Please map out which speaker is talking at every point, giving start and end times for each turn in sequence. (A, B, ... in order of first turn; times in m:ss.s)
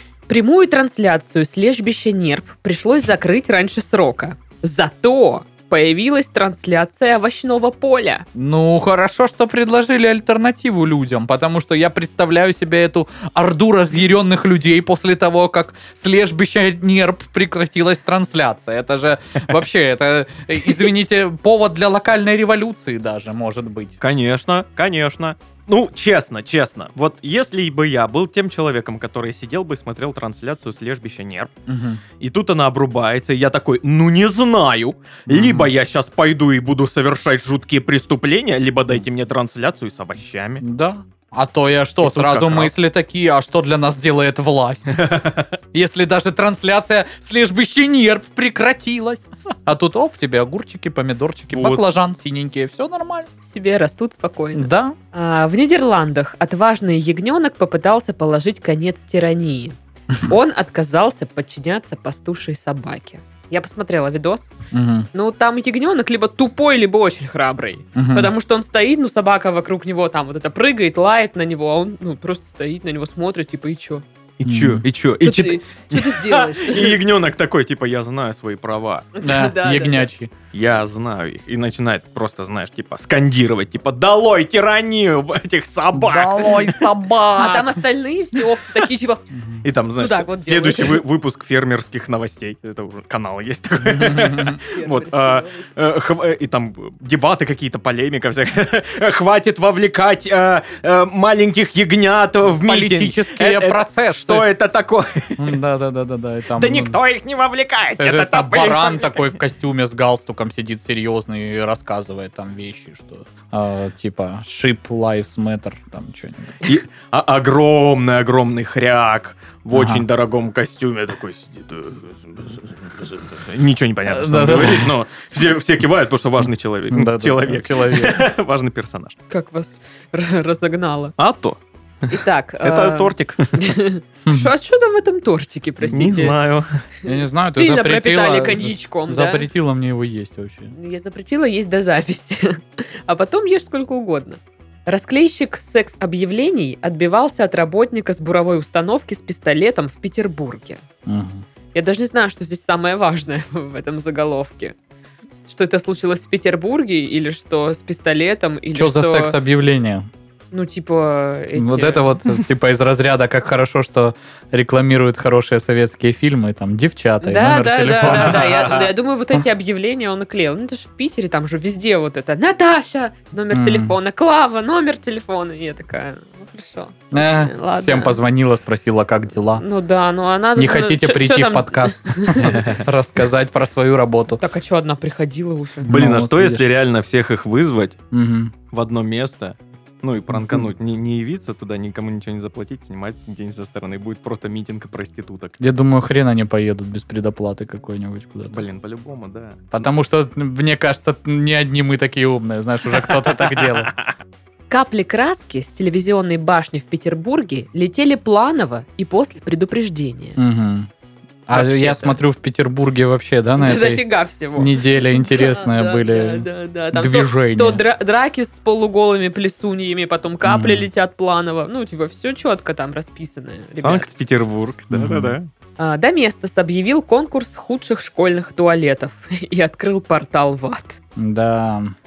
0:00.3-0:08.2 A
0:08.3-0:24.0 B
0:24.0-0:31.5 C
0:31.7-0:32.0 B
0:32.2-0:40.6 C
0:35.3-0:35.7 B
0:40.6-0:45.1 B
0:42.0-0:42.7 C
0:45.0-0:45.4 C
0:45.7-0:53.3 B
0:51.5-0:51.8 C
0:53.4-1:04.5 A
0:54.5-0:55.0 B
1:04.7-1:05.1 B
1:05.1-1:14.0 A
1:08.0-1:08.3 B
1:14.4-1:19.1 C
1:14.4-1:14.8 B
1:15.2-1:17.0 A
1:19.1-1:20.1 A
1:19.2-1:20.3 B
1:20.5-1:26.9 C
1:25.9-1:27.8 B
1:27.4-1:29.2 A
1:29.3-1:29.6 B
1:29.6-1:45.6 C
1:30.0-1:31.0 A
1:33.8-1:34.6 B
1:34.6-1:35.7 A
1:42.6-1:44.5 B
1:45.4-1:47.0 B
1:46.6-1:49.2 C
1:48.0-1:56.6 B
1:56.6-2:09.2 C
1:59.7-2:00.0 B
2:04.1-2:04.9 B
2:06.9-2:08.3 B
2:09.3-2:11.1 A
2:11.2-2:13.6 C
2:12.1-2:16.4 A
2:15.8-2:16.7 C
2:17.0-2:19.4 A
2:17.0-2:20.7 B
2:20.7-2:30.8 A
2:31.0-2:31.4 B
2:31.7-2:34.8 A
2:35.5-2:39.4 A
2:38.7-2:40.0 B
2:40.5-2:42.2 A
2:41.5-2:48.7 B
2:47.2-2:58.2 A
2:48.1-2:48.8 C
2:53.5-2:53.9 B
2:57.1-2:59.6 B
2:59.6-3:02.7 A
3:00.6-3:04.4 B
3:02.5-3:02.8 C
3:04.4-3:05.9 A
3:05.8-3:06.7 B
3:05.9-3:08.0 C
3:08.1-3:08.5 B
3:08.7-3:15.6 C
3:10.3-3:10.7 B
3:15.6-3:18.6 B
3:18.5-3:19.7 C
3:19.7-3:23.9 B
3:23.0-3:24.0 C
3:24.7-3:30.4 A
3:30.4-3:30.9 B
3:31.5-3:34.0 B
3:31.5-3:32.2 A
3:33.6-3:44.1 A
3:34.6-3:37.8 B
3:40.4-3:40.9 B
3:43.8-3:45.5 C
3:44.9-3:45.4 B
3:45.8-3:51.0 A
3:51.2-3:51.9 B